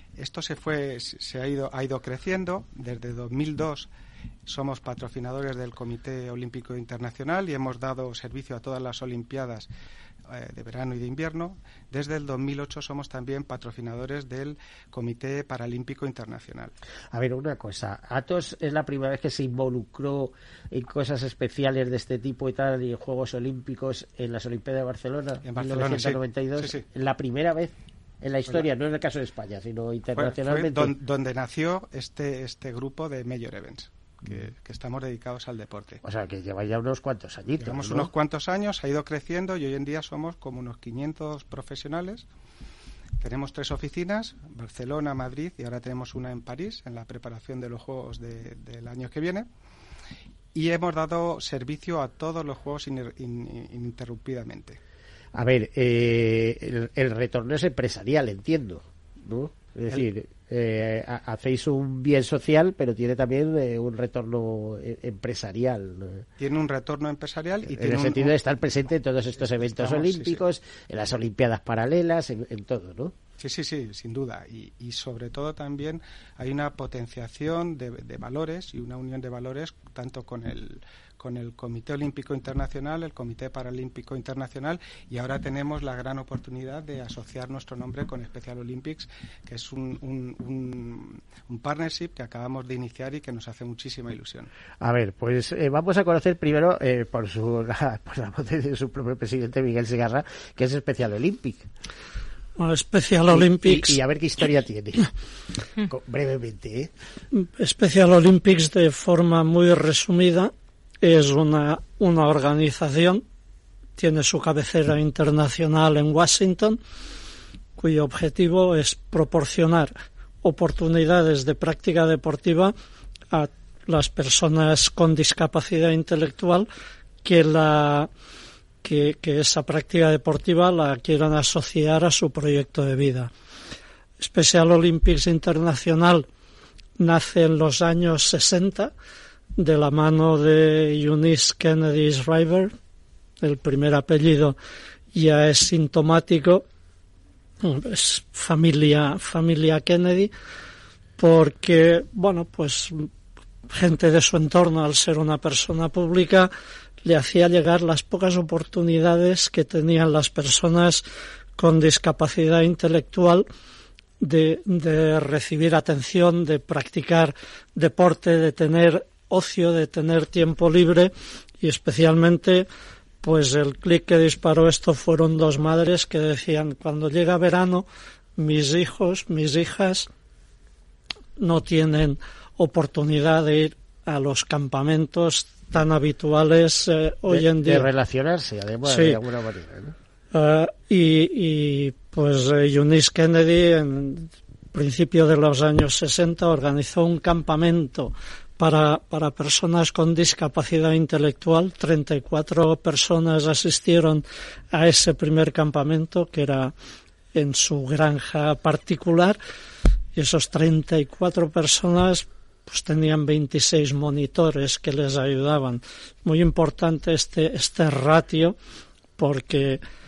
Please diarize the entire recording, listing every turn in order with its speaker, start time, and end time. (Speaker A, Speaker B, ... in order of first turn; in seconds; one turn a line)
Speaker A: 0.2-3.9
Speaker A: 4.5-9.7
Speaker A: 10.3-16.7
Speaker B: 17.1-30.9
Speaker A: 25.4-26.8
Speaker A: 30.1-36.0
Speaker B: 36.0-38.1
Speaker A: 37.6-42.2
Speaker A: 43.2-49.5
Speaker A: 50.5-54.8
Speaker B: 55.3-66.3
Speaker A: 66.4-68.4
Speaker B: 67.7-73.1
Speaker A: 69.4-70.4
Speaker A: 73.4-94.5
Speaker B: 94.8-101.7
Speaker C: 102.6-104.0
Speaker B: 103.3-105.1
Speaker B: 105.8-106.9
Speaker C: 107.3-110.5
Speaker C: 111.0-113.2
Speaker C: 114.0-116.8
Speaker C: 117.8-122.7
Speaker C: 123.3-126.7
Speaker C: 127.2-128.1
Speaker C: 128.8-133.3
Speaker C: 134.2-136.3
Speaker C: 137.0-138.9
Speaker C: 139.6-142.7
Speaker C: 143.4-144.6
Speaker C: 145.1-146.6
Speaker C: 147.6-150.3
Speaker C: 151.2-153.1
Speaker C: 153.7-156.5
Speaker C: 157.0-161.0
Speaker C: 161.6-163.5
Speaker C: 164.2-172.7
Speaker C: 173.2-177.8
Speaker C: 178.4-180.1
Speaker C: 181.4-187.9
Speaker B: 187.3-189.9
Speaker C: 188.8-189.2
Speaker C: 190.3-206.7
Speaker C: 207.3-209.4
Speaker C: 210.2-218.6
Speaker C: 219.2-219.8